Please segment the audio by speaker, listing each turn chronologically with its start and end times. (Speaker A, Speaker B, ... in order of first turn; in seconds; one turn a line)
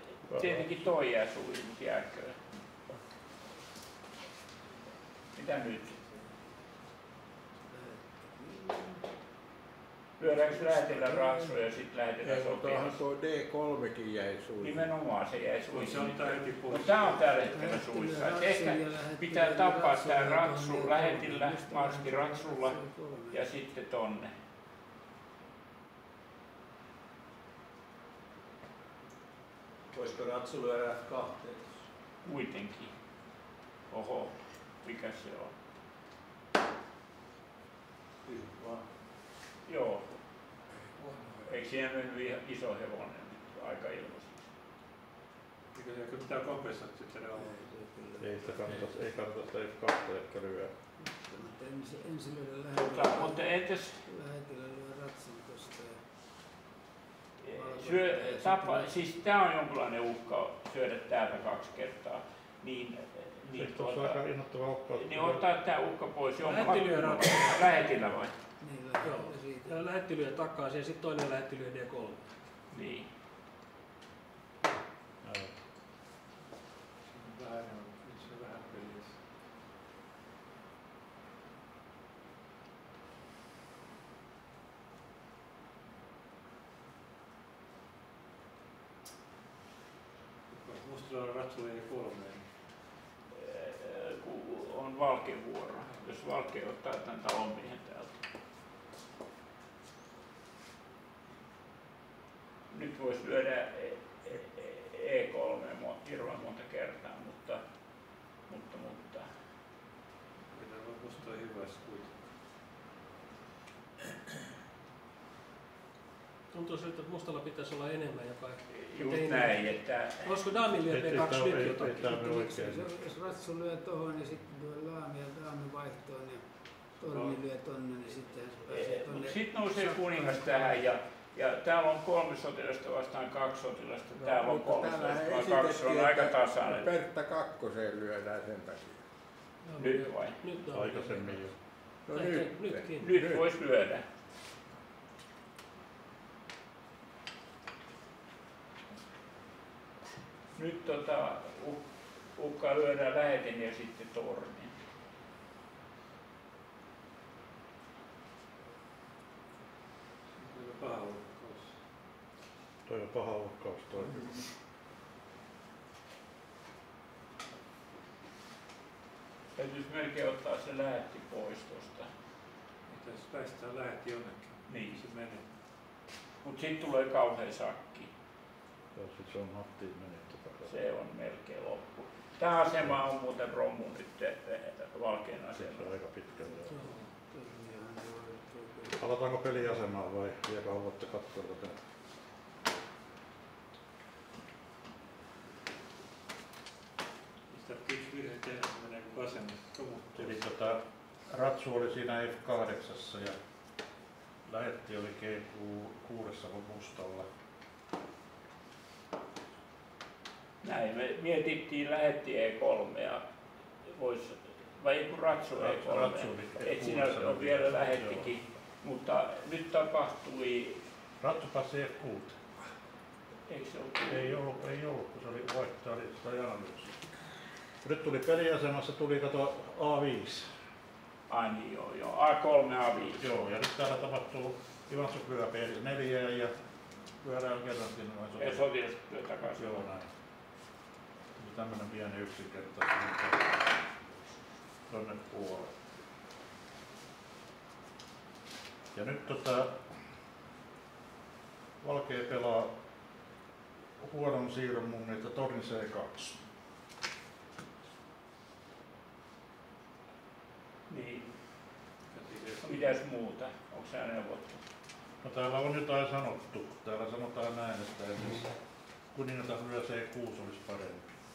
Speaker A: 0.3-0.8
Speaker B: 0.3-2.4
Speaker B: 5.3-6.0
Speaker C: 7.7-9.0
Speaker B: 10.2-13.0
Speaker C: 10.6-11.5
Speaker D: 12.2-14.9
Speaker B: 14.6-22.8
Speaker E: 15.7-17.3
Speaker C: 17.4-23.4
Speaker B: 23.3-24.3
Speaker F: 29.9-31.8
Speaker B: 32.2-32.9
Speaker B: 33.9-35.5
Speaker F: 38.3-38.9
Speaker B: 39.7-40.0
Speaker E: 41.0-41.6
Speaker B: 41.5-44.5
Speaker E: 45.7-47.7
Speaker C: 47.4-48.6
Speaker A: 48.2-50.7
Speaker C: 51.0-56.0
Speaker B: 52.7-54.0
Speaker B: 57.4-64.2
Speaker C: 57.5-58.9
Speaker A: 63.6-65.4
Speaker B: 65.0-68.3
Speaker G: 66.4-67.7
Speaker C: 68.6-69.7
Speaker G: 69.0-72.3
Speaker B: 72.7-73.1
Speaker A: 75.2-75.6
Speaker E: 77.0-79.2
Speaker E: 90.5-92.5
Speaker B: 93.3-98.1
Speaker B: 102.7-107.6
Speaker B: 108.5-109.3
Speaker E: 110.5-112.2
Speaker G: 116.5-122.2
Speaker B: 118.7-120.3
Speaker A: 120.9-123.1
Speaker C: 122.1-126.4
Speaker C: 127.0-130.8
Speaker E: 127.1-127.4
Speaker B: 128.7-136.9
Speaker D: 134.2-139.0
Speaker G: 139.6-143.2
Speaker B: 139.8-140.4
Speaker A: 140.7-141.6
Speaker D: 142.1-142.9
Speaker B: 143.0-144.0
Speaker B: 150.6-151.8
Speaker B: 152.4-154.7
Speaker E: 160.3-161.8
Speaker A: 162.9-164.5
Speaker B: 169.6-172.1
Speaker E: 172.9-175.4
Speaker B: 174.7-175.0
Speaker B: 176.4-178.1
Speaker A: 178.9-180.8
Speaker B: 180.7-185.9
Speaker A: 185.6-186.7
Speaker C: 186.4-189.1
Speaker A: 188.9-191.8
Speaker E: 197.5-200.4
Speaker A: 200.2-203.4
Speaker A: 204.5-207.3
Speaker B: 210.6-213.2
Speaker B: 213.9-220.8
Speaker A: 215.6-218.3
Speaker A: 221.2-222.4
Speaker B: 223.5-224.4
Speaker A: 224.1-227.0
Speaker A: 227.8-230.5
Speaker B: 231.3-233.2
Speaker A: 233.2-236.5
Speaker A: 237.1-238.7
Speaker B: 238.4-239.9
Speaker A: 239.6-240.1
Speaker A: 241.4-243.8
Speaker A: 244.9-245.7
Speaker A: 248.9-249.9
Speaker A: 251.8-252.7
Speaker A: 254.0-256.2
Speaker B: 260.9-261.3
Speaker E: 262.1-262.9
Speaker B: 262.6-264.6
Speaker A: 265.2-268.5
Speaker A: 269.1-271.1